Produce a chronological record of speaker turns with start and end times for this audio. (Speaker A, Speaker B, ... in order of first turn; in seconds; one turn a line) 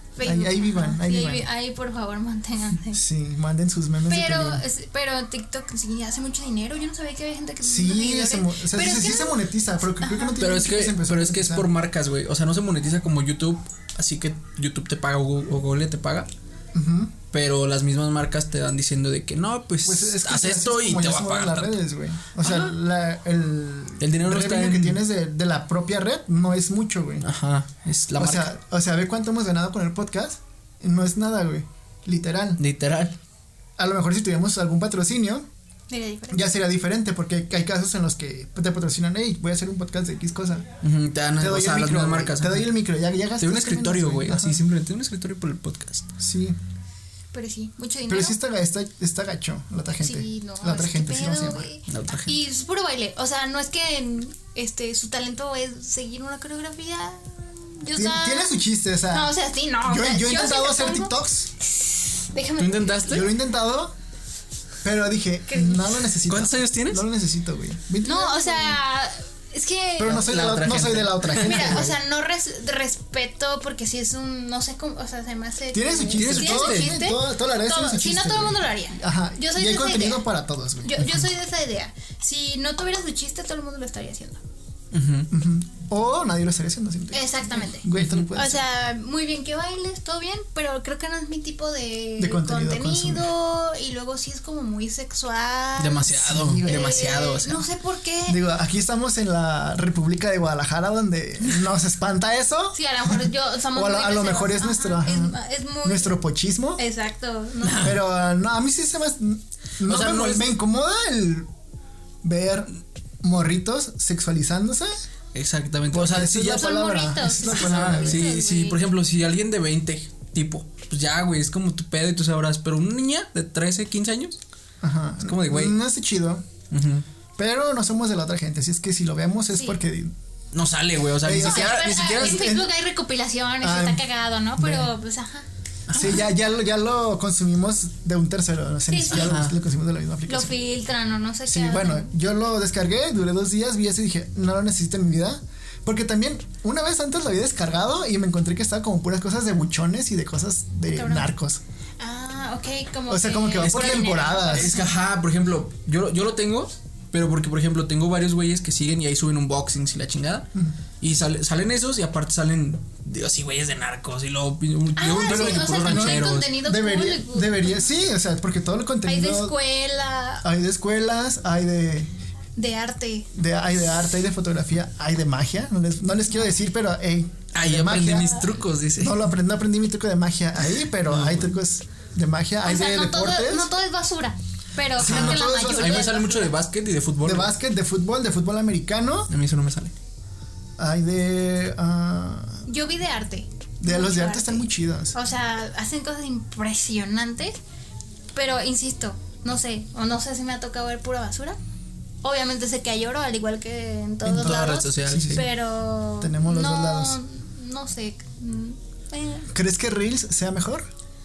Speaker A: 0.2-3.0
Speaker B: 0.2-1.5
Speaker B: 2.9-4.6
Speaker A: 4.1-9.4
Speaker B: 7.6-11.7
Speaker A: 10.0-10.4
Speaker C: 10.4-16.3
Speaker B: 16.7-17.1
Speaker C: 17.3-21.8
Speaker B: 19.8-27.2
Speaker C: 24.0-25.0
Speaker C: 27.2-28.5
Speaker B: 28.2-32.6
Speaker C: 32.6-33.1
Speaker B: 33.8-35.5
Speaker A: 35.9-36.5
Speaker B: 36.3-40.6
Speaker C: 40.8-42.7
Speaker B: 41.4-44.6
Speaker C: 43.4-46.1
Speaker B: 46.2-46.6
Speaker A: 47.3-48.4
Speaker B: 48.1-51.7
Speaker A: 50.0-63.3
Speaker C: 51.9-52.3
Speaker B: 57.9-61.5
Speaker C: 62.6-63.3
Speaker B: 63.1-63.9
Speaker B: 64.8-68.8
Speaker A: 65.5-66.1
Speaker C: 66.2-67.0
Speaker A: 68.0-70.2
Speaker B: 70.0-72.0
Speaker C: 70.0-71.8
Speaker A: 71.3-80.2
Speaker B: 75.7-81.3
Speaker C: 76.2-77.0
Speaker A: 80.8-84.4
Speaker C: 84.9-85.3
Speaker B: 85.3-88.6
Speaker A: 87.1-96.1
Speaker C: 87.9-88.3
Speaker B: 92.2-93.3
Speaker C: 95.8-97.6
Speaker B: 96.2-97.0
Speaker A: 96.6-98.4
Speaker B: 98.3-106.8
Speaker A: 102.7-106.2
Speaker A: 106.8-107.9
Speaker C: 107.6-108.0
Speaker B: 107.8-111.5
Speaker C: 109.8-110.5
Speaker B: 112.2-115.0
Speaker C: 115.3-116.7
Speaker B: 115.9-118.3
Speaker A: 116.4-118.8
Speaker C: 117.4-124.4
Speaker B: 124.8-126.4
Speaker C: 125.2-125.8
Speaker C: 126.7-127.0
Speaker B: 127.4-130.1
Speaker A: 129.5-129.8
Speaker C: 130.5-132.5
Speaker B: 131.2-132.7
Speaker A: 131.3-135.5
Speaker B: 133.6-134.0
Speaker B: 134.6-134.9
Speaker C: 135.9-136.2
Speaker B: 135.9-140.5
Speaker A: 138.9-139.3
Speaker C: 139.1-139.6
Speaker A: 140.3-142.1
Speaker B: 141.5-151.6
Speaker A: 150.9-151.3
Speaker A: 152.0-154.9
Speaker B: 153.1-154.8
Speaker C: 153.6-160.5
Speaker C: 161.0-166.6
Speaker A: 165.0-167.9
Speaker B: 165.1-169.5
Speaker A: 169.1-170.4
Speaker B: 170.4-172.1
Speaker A: 172.6-173.3
Speaker B: 173.3-178.4
Speaker C: 177.5-179.2
Speaker B: 179.0-183.7
Speaker C: 181.0-181.6
Speaker A: 182.6-186.5
Speaker B: 184.9-186.2
Speaker C: 185.0-187.5
Speaker B: 187.2-189.3
Speaker C: 189.3-189.9
Speaker B: 190.8-192.6
Speaker A: 192.7-197.6
Speaker B: 193.8-195.1
Speaker A: 198.3-201.6
Speaker A: 202.2-209.5
Speaker B: 204.2-205.5
Speaker C: 204.2-205.4
Speaker B: 206.2-207.2
Speaker B: 209.5-210.9